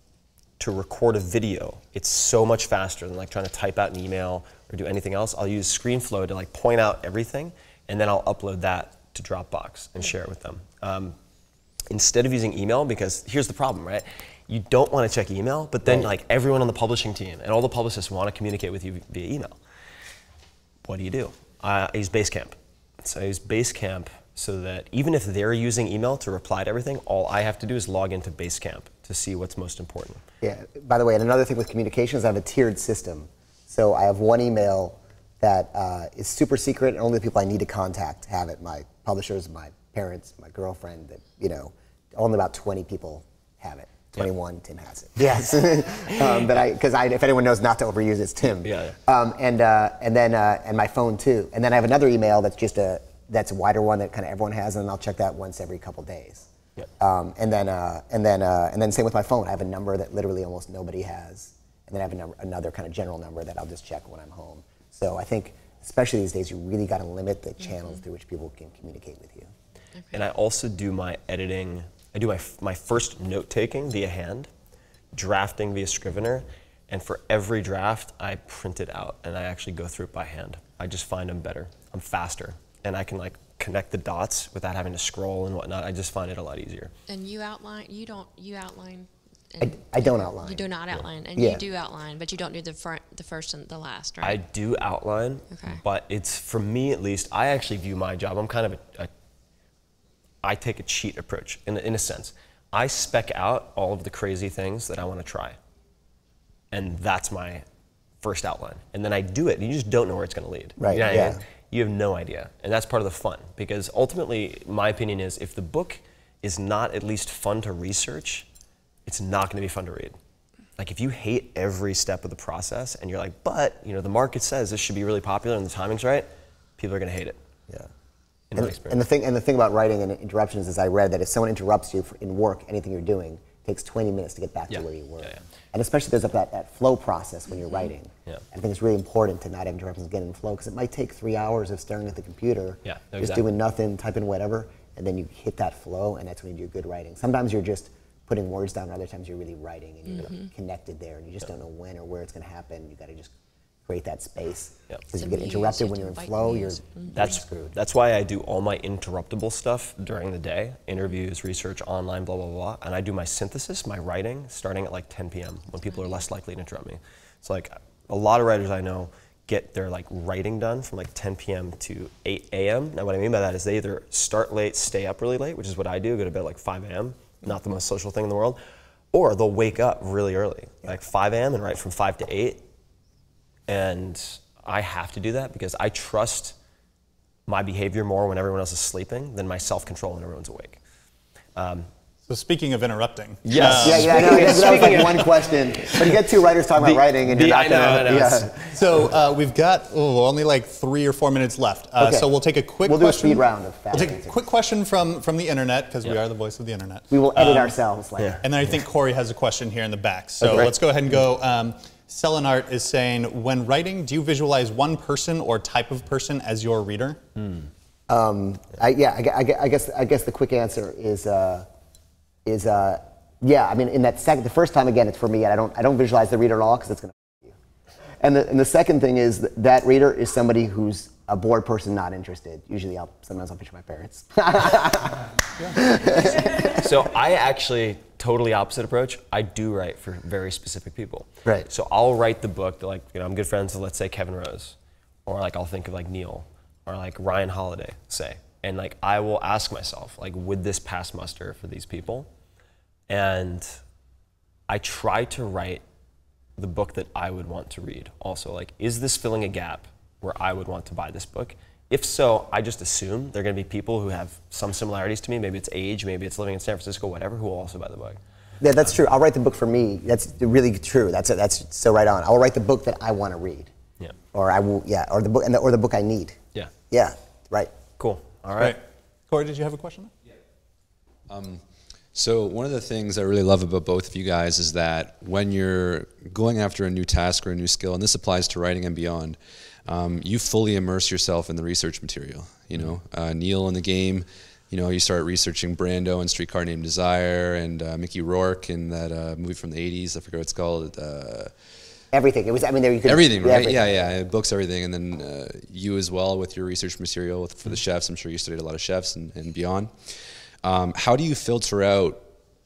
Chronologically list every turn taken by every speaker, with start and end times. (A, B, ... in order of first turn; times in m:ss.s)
0:00.6-0:11.2 A
0:11.9-0:19.6 A
0:20.9-0:30.2 A
0:30.4-0:56.5 B
0:48.6-0:49.0 A
0:57.0-1:09.5 B
1:10.1-1:14.5 A
1:15.1-1:26.9 A
1:27.1-1:29.8 C
1:29.6-1:30.7 B
1:30.4-1:34.4 C
1:31.4-1:31.6 B
1:34.2-1:39.1 A
1:35.5-1:35.8 C
1:40.4-1:45.6 A
1:46.7-1:47.6 A
1:48.2-1:58.5 A
1:50.8-1:51.4 B
1:59.1-2:00.2 A
2:00.8-2:07.4 A
2:08.5-2:09.0 A
2:08.6-2:33.3 B
2:14.7-2:15.4 A
2:22.8-2:23.4 A
2:30.1-2:30.5 C
2:33.9-2:37.8 B
2:35.1-2:37.4 C
2:37.2-2:58.6 A
2:59.1-3:02.6 A
3:03.7-3:06.6 A
3:07.5-3:10.8 A
3:11.6-3:11.9 A
3:12.3-3:14.8 D
3:13.4-3:16.2 A
3:13.7-3:19.0 B
3:16.8-3:18.7 A
3:18.7-3:27.8 D
3:22.0-3:24.4 B
3:27.1-3:28.4 B
3:28.4-3:37.2 D
3:30.4-3:30.8 A
3:37.4-3:37.6 A
3:38.1-3:41.7 B
3:42.4-3:47.6 B
3:48.2-3:56.8 B
3:56.7-4:12.3 A
4:13.1-4:13.8 A
4:14.7-4:15.8 A
4:16.6-4:28.2 A
4:28.6-4:33.7 B
4:34.3-4:36.4 B
4:36.9-4:37.7 B
4:38.0-4:38.8 A
4:38.6-4:40.1 D
4:41.3-4:41.6 E
4:42.1-5:01.5 E
5:02.1-5:04.1 B
5:03.0-5:09.9 E
5:10.6-5:12.2 E